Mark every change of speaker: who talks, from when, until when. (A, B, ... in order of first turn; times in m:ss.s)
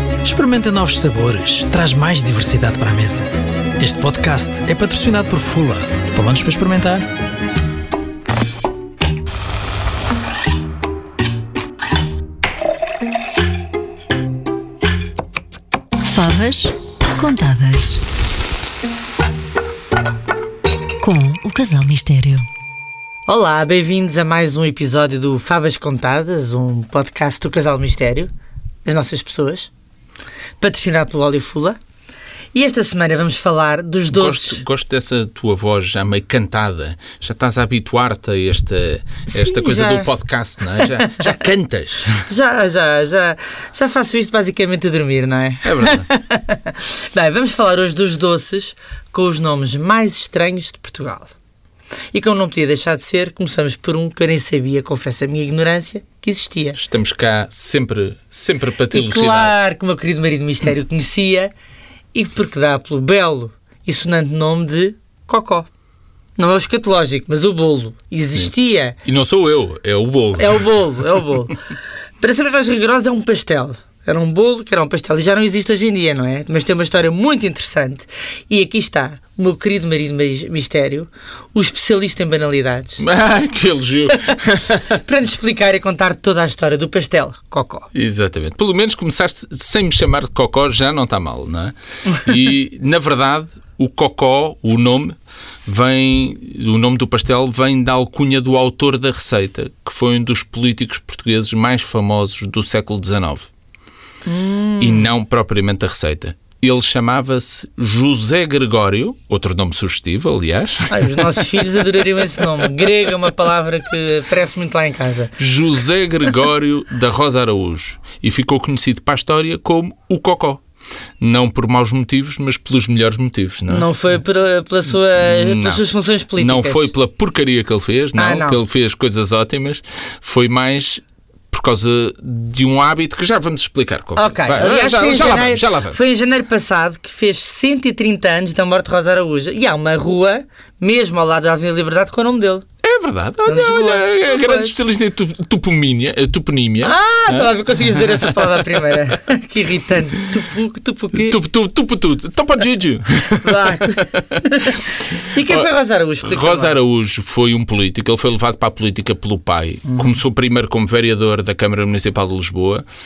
0:00.2-0:07.0 A
0:16.0-0:18.0 B
0:21.0-0:22.4 B
0:23.3-0:28.3 C
0:28.8-0:29.7 C
0:30.6-0:31.8 C
0:32.5-0:34.6 C
0:34.1-0:42.3 D
0:39.3-0:40.1 C
0:40.8-0:41.2 C
0:42.3-0:51.3 C
0:45.6-0:46.0 D
0:52.1-0:56.8 C
0:56.8-0:59.5 D
0:58.9-1:01.5 C
1:02.1-1:05.7 C
1:06.4-1:09.0 C
1:09.0-1:10.6 D
1:10.4-1:11.6 C
1:12.2-1:23.0 C
1:23.0-1:24.8 D
1:24.9-1:27.9 C
1:27.9-1:43.5 D
1:44.2-1:45.1 C
1:44.8-1:51.5 D
1:50.9-1:55.3 C
1:55.4-2:00.6 D
2:01.2-2:03.9 D
2:03.7-2:06.9 C
2:05.2-2:05.8 D
2:06.4-2:16.0 D
2:08.2-2:08.6 C
2:14.1-2:22.6 C
2:22.8-2:28.6 D
2:23.4-2:24.7 C
2:26.8-2:31.4 C
2:31.1-2:34.2 D
2:33.4-2:36.8 C
2:35.4-2:35.7 D
2:36.2-2:42.8 D
2:39.9-2:40.1 C